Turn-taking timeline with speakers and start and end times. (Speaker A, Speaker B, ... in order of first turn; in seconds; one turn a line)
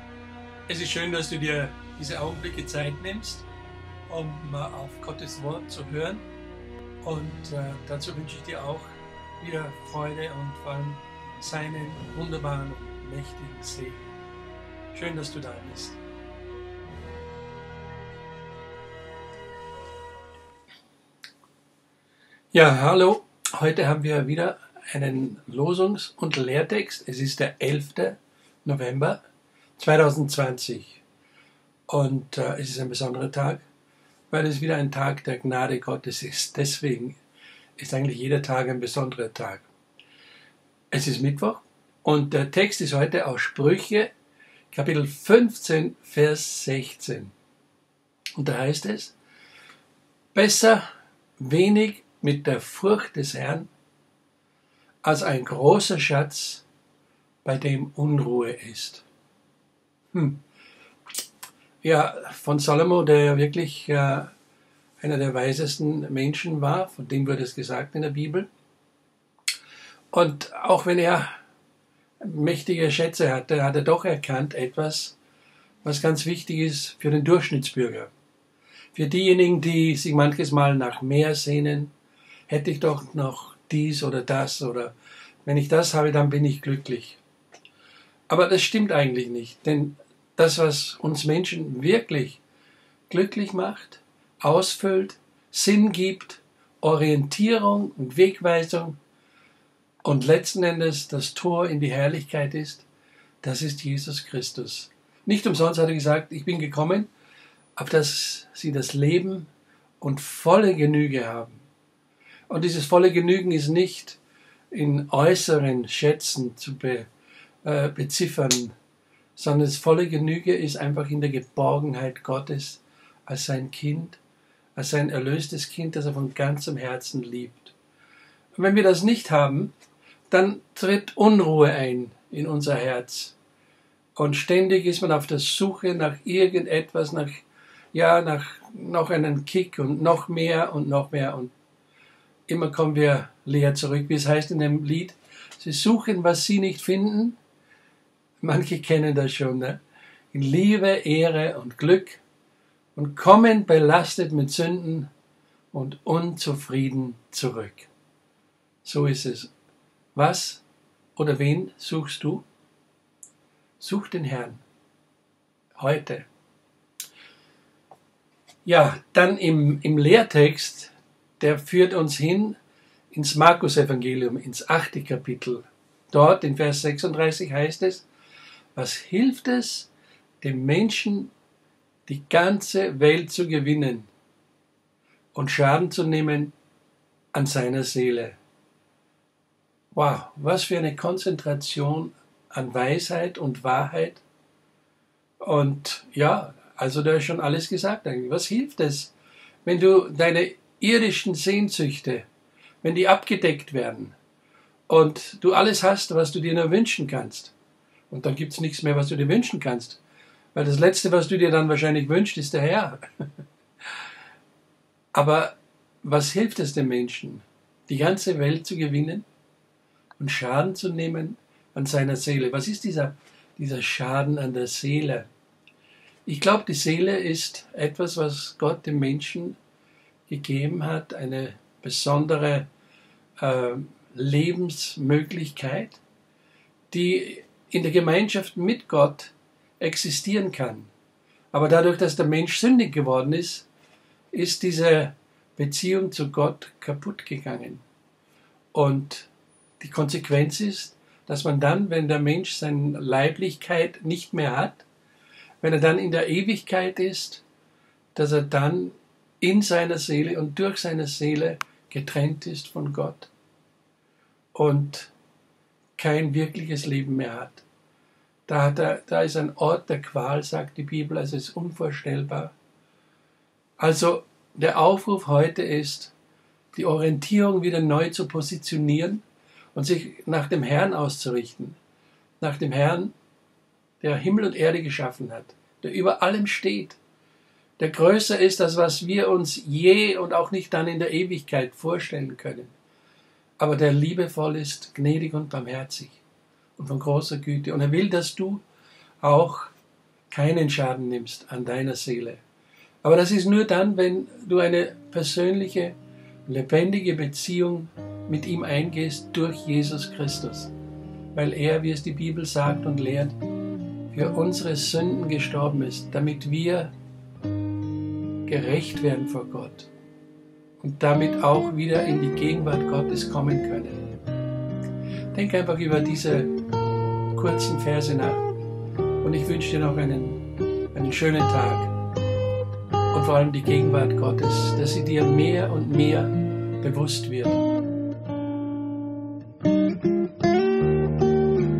Speaker A: 0.7-3.5
Speaker A: 4.1-6.2
Speaker A: 7.0-14.0
Speaker A: 14.9-16.0
Speaker A: 22.5-29.2
Speaker A: 29.8-31.0
Speaker A: 31.9-33.6
Speaker A: 34.3-37.2
Speaker A: 37.8-39.7
Speaker A: 40.9-44.1
Speaker A: 44.7-47.3
Speaker A: 48.4-49.1
Speaker A: 50.3-53.7
Speaker A: 55.0-56.6
Speaker A: 57.4-59.0
Speaker A: 60.1-60.4
Speaker A: 61.8-64.3
Speaker A: 65.0-68.5
Speaker A: 70.1-71.4
Speaker A: 72.2-75.2
Speaker A: 75.8-78.1
Speaker A: 78.9-81.9
Speaker A: 82.5-84.9
Speaker A: 85.4-87.2
Speaker A: 88.3-92.4
Speaker A: 93.1-99.0
Speaker A: 100.0-102.8
Speaker A: 103.4-107.1
Speaker A: 107.8-109.5
Speaker A: 110.0-111.6
Speaker A: 112.5-114.2
Speaker A: 114.7-117.1
Speaker A: 117.6-118.7
Speaker A: 119.3-124.2
Speaker A: 124.7-127.7
Speaker A: 128.6-129.7
Speaker A: 130.3-133.3
Speaker A: 134.2-141.5
Speaker A: 142.5-147.4
Speaker A: 148.4-149.8
Speaker A: 150.3-152.2
Speaker A: 152.9-155.1
Speaker A: 155.7-157.9
Speaker A: 158.8-159.5
Speaker A: 160.1-160.6
Speaker A: 161.2-162.4
Speaker A: 163.8-164.6
Speaker A: 165.7-166.3
Speaker A: 168.6-172.6
Speaker A: 173.1-178.1
Speaker A: 178.7-179.9
Speaker A: 180.4-181.3
Speaker A: 182.1-184.1
Speaker A: 185.3-186.5
Speaker A: 187.3-188.4
Speaker A: 189.9-194.2
Speaker A: 195.4-199.1
Speaker A: 199.6-202.3
Speaker A: 202.8-204.2
Speaker A: 204.9-207.5
Speaker A: 208.1-210.0
Speaker A: 210.5-213.3
Speaker A: 215.1-219.2
Speaker A: 220.2-225.3
Speaker A: 226.2-229.6
Speaker A: 230.3-232.7
Speaker A: 233.4-236.0
Speaker A: 236.9-240.9
Speaker A: 241.5-243.7
Speaker A: 244.3-247.8
Speaker A: 248.7-254.8
Speaker A: 255.6-257.4
Speaker A: 258.1-263.3
Speaker A: 264.5-265.1
Speaker A: 265.9-267.6
Speaker A: 268.5-272.5
Speaker A: 273.8-276.1
Speaker A: 276.7-281.8
Speaker A: 282.4-283.1
Speaker A: 284.0-287.0
Speaker A: 287.8-292.7
Speaker A: 293.6-296.2
Speaker A: 296.8-298.6
Speaker A: 299.2-299.7
Speaker A: 300.3-302.4
Speaker A: 303.0-310.7
Speaker A: 311.3-313.4
Speaker A: 314.1-316.9
Speaker A: 318.4-319.9
Speaker A: 320.8-324.0
Speaker A: 325.3-326.5
Speaker A: 327.3-328.4
Speaker A: 329.2-330.4
Speaker A: 330.9-331.9
Speaker A: 333.1-337.6